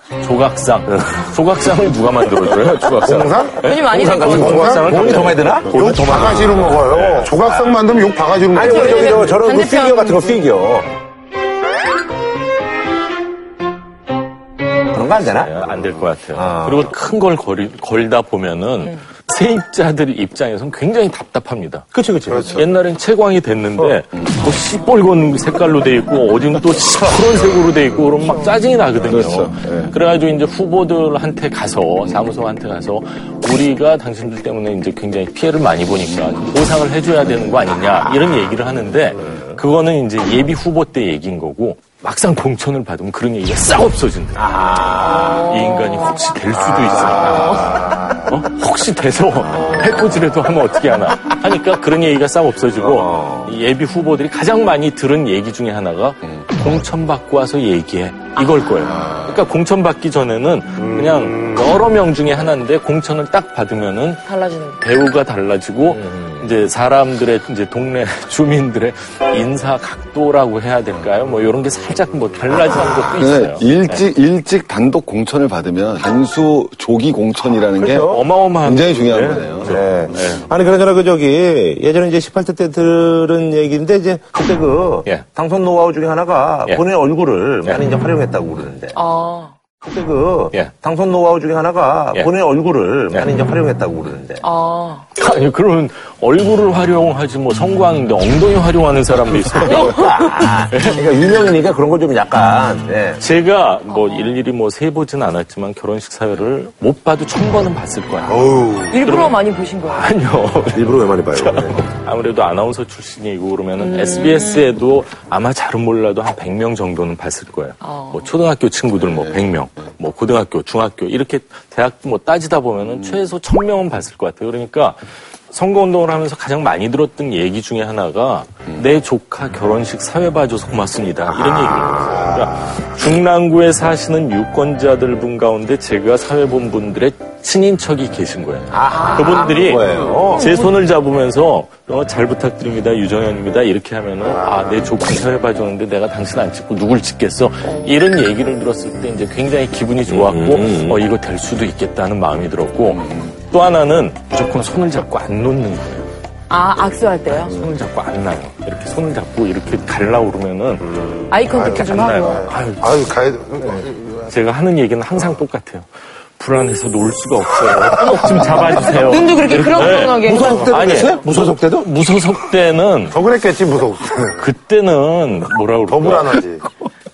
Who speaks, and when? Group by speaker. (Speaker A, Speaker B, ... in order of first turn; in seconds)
Speaker A: 0.2-7.0, 15.3-21.9, 22.5-44.5, 45.3-64.2, 64.8-74.1, 78.0-80.5, 95.2-101.0, 103.2-156.1, 157.4-160.8, 161.5-163.1, 163.6-173.2, 174.2-176.4
Speaker B: 0.9-1.2, 2.5-5.8, 6.8-7.7, 8.5-10.9, 14.9-15.6, 16.3-16.9, 21.9-22.6, 37.7-38.0, 39.1-39.6, 44.4-45.5, 46.7-47.4, 52.7-53.6, 77.4-78.3, 79.6-89.0, 89.8-94.5, 99.5-103.2, 110.7-111.8, 131.2-132.2, 138.7-140.5, 150.1-150.6, 170.2-171.9
Speaker C: 3.0-3.6, 4.2-9.4, 22.4-22.6, 60.8-61.7, 108.3-109.0, 160.9-164.3, 168.3-168.9, 173.1-174.3, 175.9-176.6
Speaker D: 3.6-4.5, 8.5-10.5, 28.1-28.6, 45.0-46.2, 47.3-47.8, 49.5-50.0, 58.4-59.2, 64.2-64.8, 72.7-73.0, 88.9-89.5, 94.4-95.1, 99.6-100.2, 103.9-104.4, 108.9-110.2, 113.8-114.7, 117.8-118.3, 138.9-140.7, 147.6-148.0, 156.5-157.5, 161.3-162.5, 168.0-171.1
Speaker E: 22.3-22.6, 29.1-29.9, 72.5-80.3, 152.9-153.3